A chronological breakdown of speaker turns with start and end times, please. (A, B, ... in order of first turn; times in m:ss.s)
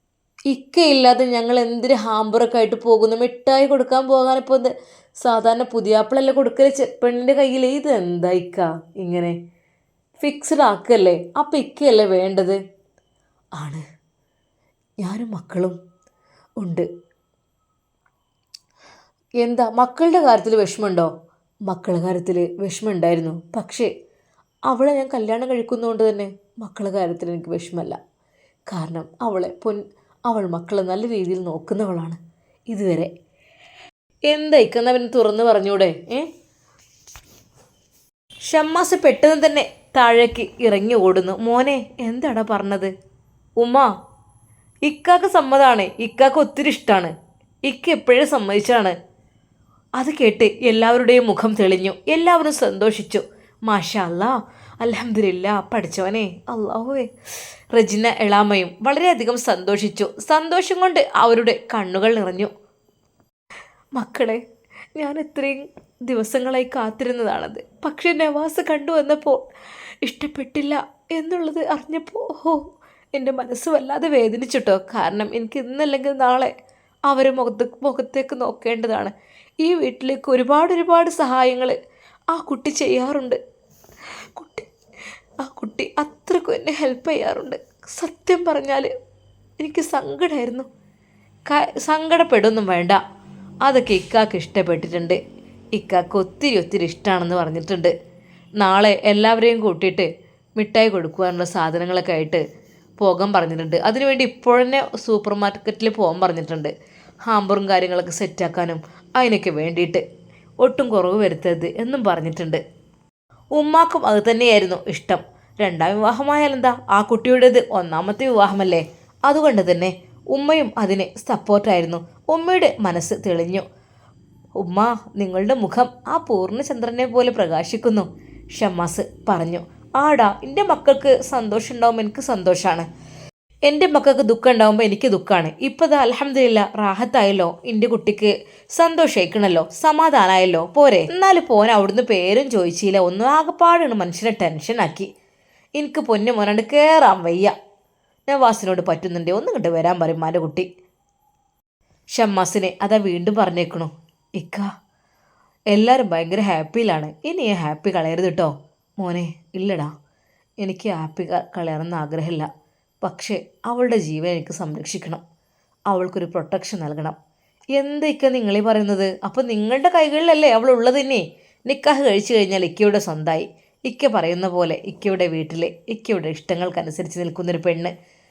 0:00.5-0:09.4 A
0:10.2-0:12.6 A
0:13.6-0:13.8 A
0:15.0-0:15.8 A
0:16.6-0:16.9 A
0:19.4-0:21.1 A
0:21.7-0:23.9 A
0:24.7-0:28.0 A
0:28.7-0:32.2 A
0:32.7-0:33.1 A
0:34.3-0:36.3 A
0:38.4-0:42.9 A
0:43.6-0:43.9 A
0:44.8-0:47.1 A
0:47.6-0:48.9 A
0:50.0-0:57.1 A
0:57.7-1:02.5 A
1:03.9-1:04.4 A
1:05.0-1:09.4 A
1:10.0-1:12.6 A
1:13.1-1:16.5 A
1:17.1-1:21.8 A
1:22.3-1:23.4 A
1:24.3-1:24.7 A
1:25.4-1:28.9 A
1:29.6-1:30.7 A
1:31.5-1:33.0 A
1:33.6-1:35.2 A
1:35.7-1:37.9 A
1:38.6-1:42.4 A
1:43.0-1:46.7 A
1:47.2-1:50.0 A
1:50.6-1:52.6 A
1:53.5-2:03.6 A
2:04.6-2:12.8 A
2:13.7-2:25.1 A
2:25.8-2:27.5 A
2:28.3-2:30.7 A
2:32.1-2:34.7 A
2:35.7-2:39.9 A
2:40.6-2:42.5 A
2:43.0-2:45.2 A
2:45.9-2:47.2 A
2:47.8-2:57.9 A